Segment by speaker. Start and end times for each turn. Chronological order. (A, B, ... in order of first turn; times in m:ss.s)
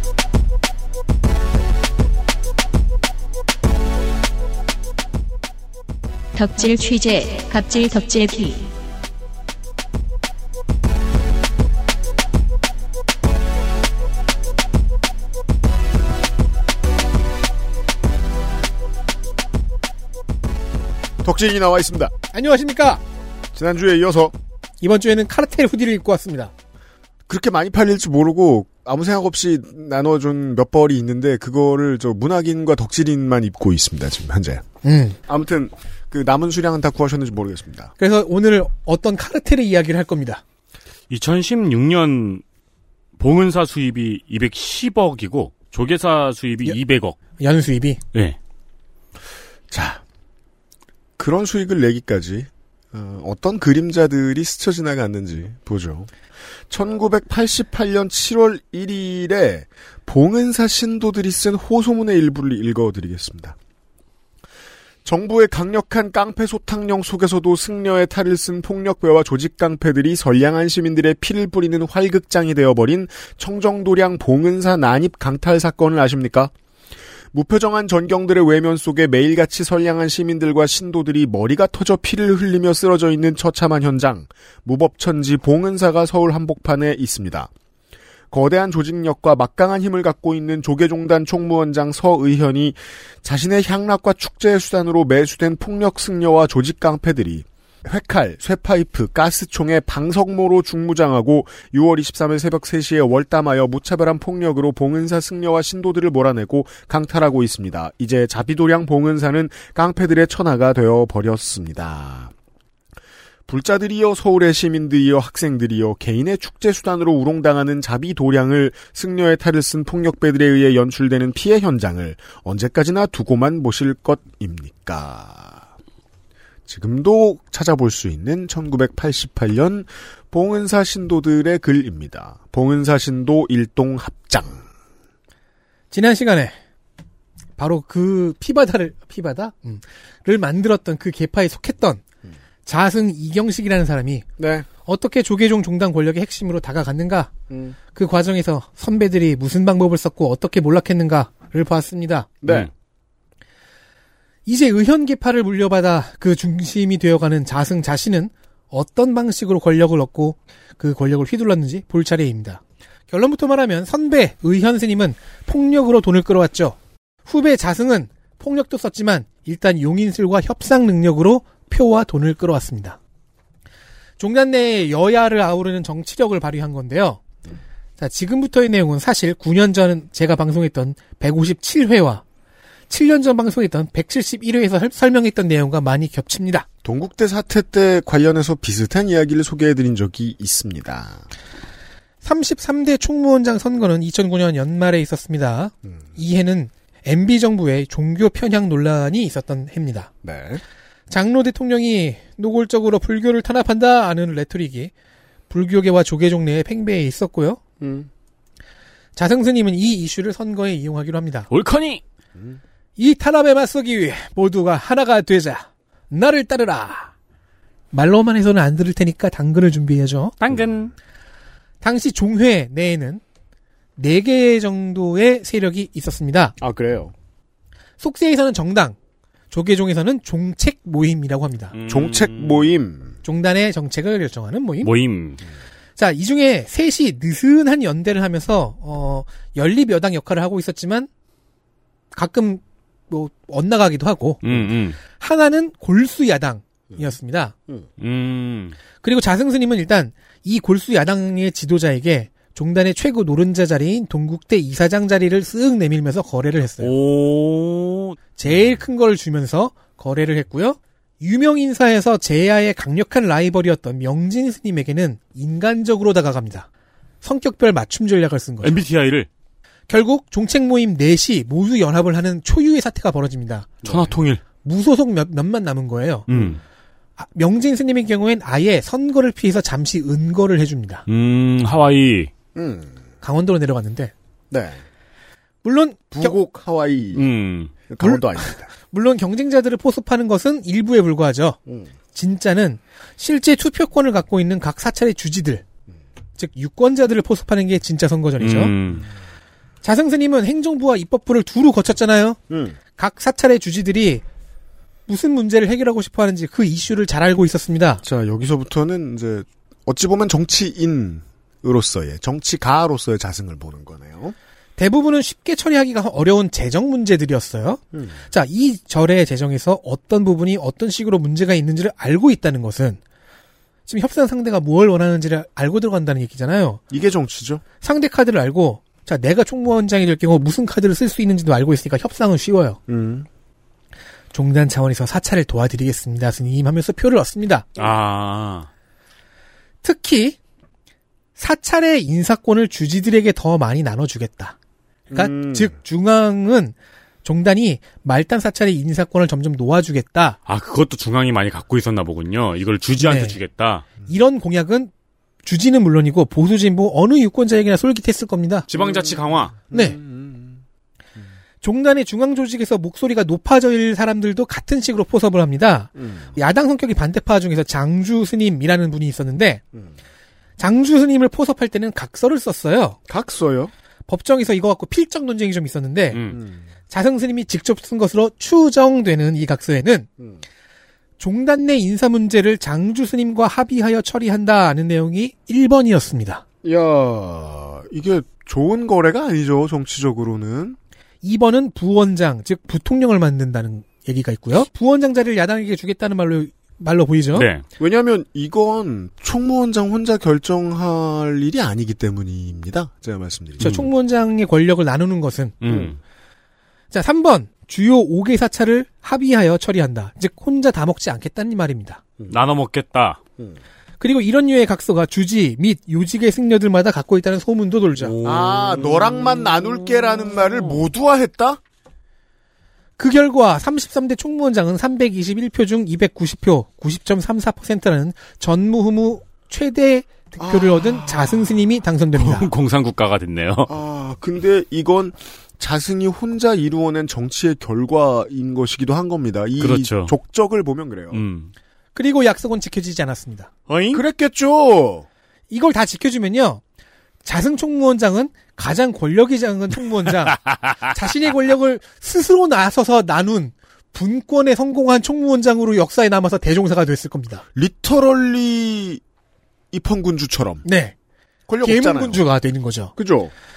0:06.3-0:08.7 A
0:21.2-0:22.1 B
0:22.3-0:23.0 C
0:23.5-0:24.3 B
0:24.8-0:26.5 C
0:27.3-0:34.6 B
0:34.8-0:35.2 C
0:35.3-0:37.9 B
0:38.0-0:40.4 C
0:41.1-0:42.4 D
0:43.2-0:47.2 D
0:47.4-0:48.0 C
0:49.7-0:50.0 B
0:51.2-0:56.1 B
0:56.7-1:03.6 B
1:05.0-1:16.5 B
1:17.3-1:27.5 B
1:28.3-1:52.3 B
1:53.5-2:05.6 B
2:06.7-2:14.6 B
2:15.9-2:16.5 C
2:17.6-2:22.0 C
2:22.6-2:24.2 C
2:24.4-2:24.7 B
2:24.8-2:27.3 C
2:27.5-2:27.8 B
2:27.9-2:32.3 C
2:32.4-2:32.7 B
2:32.4-2:32.7 D
2:34.4-2:53.0 C
2:54.2-2:57.2 C
2:58.0-3:02.2 C
3:02.9-3:06.6 C
3:06.8-3:11.2 B
3:12.2-3:20.1 C
3:20.2-3:20.6 B
3:21.1-3:24.9 C
3:25.5-3:27.6 C
3:27.8-3:28.1 B
3:29.2-3:31.5 C
3:31.5-3:32.0 D
3:33.0-3:37.1 C
3:37.9-3:40.3 C
3:40.4-3:40.9 D
3:41.8-3:43.2 C
3:44.0-3:46.6 C
3:46.6-3:47.1 B
3:48.0-3:49.0 C
3:49.5-3:51.7 C
3:51.7-3:52.7 D
3:51.8-3:53.2 B
3:53.2-3:54.9 C
3:54.8-3:55.4 D
3:56.0-4:01.1 C
4:02.1-4:04.4 C
4:04.4-4:05.0 D
4:05.0-4:07.5 C
4:08.0-4:08.8 D
4:09.0-4:16.9 C
4:16.8-4:18.2 D
4:18.4-4:26.7 C
4:27.2-4:28.8 C
4:28.6-4:29.3 D
4:29.9-4:33.8 C
4:33.8-4:34.4 D
4:34.6-4:36.3 C
4:36.3-4:36.6 D
4:37.2-4:41.0 C
4:41.1-4:42.3 D
4:42.5-4:42.9 B
4:43.2-4:44.1 C
4:44.5-4:44.8 B
4:45.6-4:46.4 C
4:46.1-4:47.3 B
4:47.1-4:47.7 D
4:47.9-4:48.7 B
4:48.0-4:51.6 C
4:52.1-4:55.6 C
4:56.4-4:58.7 C
4:58.4-4:59.1 D
4:59.8-5:02.4 C
5:02.5-5:02.8 B
5:03.0-5:04.2 C
5:05.1-5:08.0 C
5:08.0-5:14.4 B
5:14.8-5:23.0 C
5:17.9-5:18.2 B
5:23.9-5:26.8 C
5:26.9-5:27.6 B
5:27.8-5:32.8 C
5:32.9-5:33.3 B
5:34.3-5:37.7 C
5:37.8-5:38.7 D
5:39.8-5:40.4 C
5:41.4-5:44.5 C
5:45.1-5:45.7 B
5:45.1-5:50.4 C
5:50.4-5:53.8 D
5:53.0-5:53.4 C
5:54.0-5:54.9 C
5:55.4-5:58.6 C
5:58.7-5:59.6 D
5:58.7-6:00.6 B
5:59.7-6:00.0 C
6:01.6-6:09.6 C
6:06.0-6:06.4 B
6:10.6-6:13.0 C
6:13.1-6:13.7 B
6:14.1-6:16.2 C
6:16.1-6:16.4 D
6:16.3-6:16.6 B
6:16.9-6:20.1 C
6:21.2-6:26.4 C
6:26.6-6:30.8 B
6:31.2-6:37.5 C
6:37.3-6:37.6 D
6:37.8-6:43.8 B
6:43.6-6:45.6 C
6:43.6-6:43.9 D
6:45.6-6:46.0 D
6:45.6-6:45.9 B
6:46.9-6:52.0 C
6:52.3-6:53.2 D
6:54.0-6:58.1 C
6:58.0-6:59.5 D
6:58.2-7:01.6 B
7:03.0-7:12.5 C
7:10.4-7:11.5 B
7:12.2-7:13.7 D
7:13.7-7:21.2 B
7:19.6-7:20.1 D
7:21.1-7:21.5 D
7:21.9-7:23.5 C
7:23.7-7:24.0 D
7:23.9-7:25.0 B
7:25.5-7:26.6 C
7:27.2-7:37.4 C
7:37.6-7:39.0 B
7:39.7-7:40.6 B
7:40.6-7:40.9 C
7:41.5-7:42.2 B
7:41.6-7:42.9 C
7:43.0-7:43.3 B